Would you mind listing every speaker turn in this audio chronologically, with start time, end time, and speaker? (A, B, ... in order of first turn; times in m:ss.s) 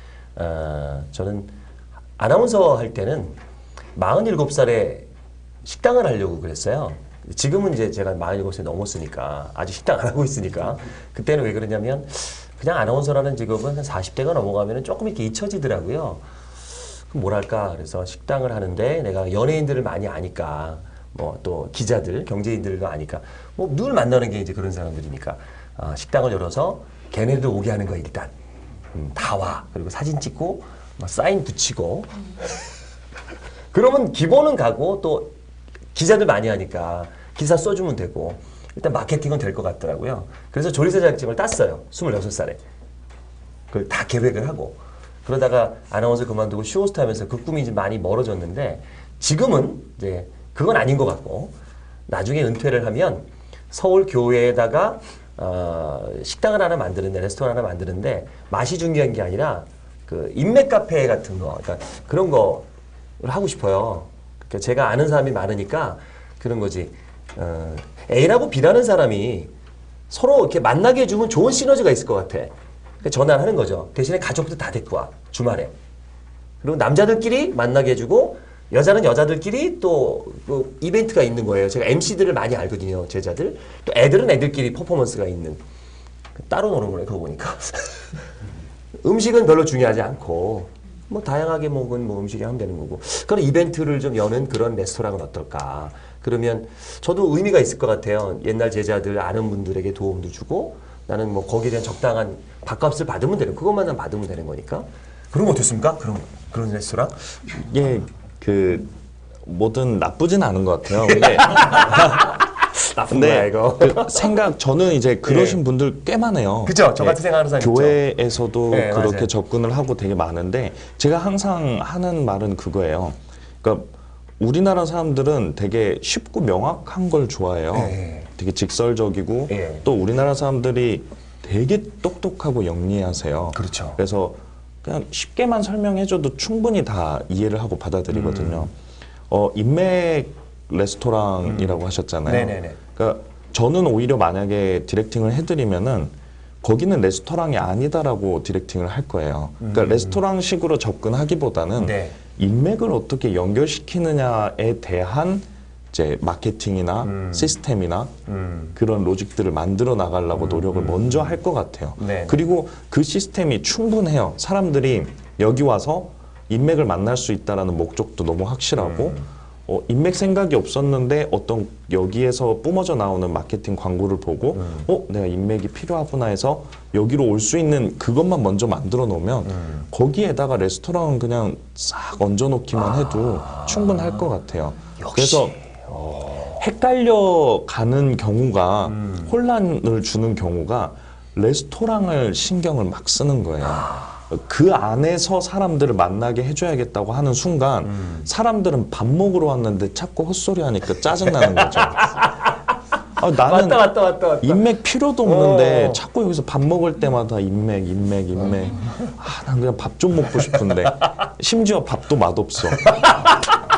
0:00.4-0:01.5 A
0:02.2-0:03.4 A
0:03.9-0:05.1 A
0:05.6-0:16.2 A
0:17.1-0:28.3 A
0:28.9-0:32.5 A
0:33.7-0:35.3 A
0:35.9-0:42.6 A
0:43.7-0:51.5 A
0:52.1-1:02.7 A
1:03.2-1:09.5 A
1:10.1-1:15.7 A
1:16.6-1:25.6 A
1:26.4-1:28.2 A
1:29.0-1:47.2 A
1:47.6-1:48.9 B
1:49.4-1:52.1 B
1:51.0-1:54.4 A
1:53.1-2:18.7 B
1:55.2-1:55.6 A
1:56.6-1:58.0 A
1:58.7-1:59.3 A
2:07.7-2:08.3 A
2:09.5-2:09.8 A
2:13.5-2:14.0 A
2:18.1-2:18.7 A
2:19.3-2:38.1 B
2:21.4-2:22.8 A
2:29.6-2:30.2 A
2:31.8-2:32.2 A
2:37.0-2:37.5 A
2:38.3-2:38.8 A
2:38.8-3:05.5 B
2:40.3-2:41.4 A
2:42.0-2:42.4 A
2:48.7-2:49.3 A
2:54.5-2:54.8 A
2:59.4-2:59.8 A
3:02.7-3:04.2 A
3:05.0-3:06.6 A
3:06.6-3:22.0 B
3:08.9-3:09.3 A
3:13.6-3:14.2 A
3:17.8-3:18.2 A
3:21.3-3:22.5 A
3:23.2-3:33.2 B
3:23.4-3:24.7 A
3:25.2-3:26.0 A
3:32.9-3:33.5 A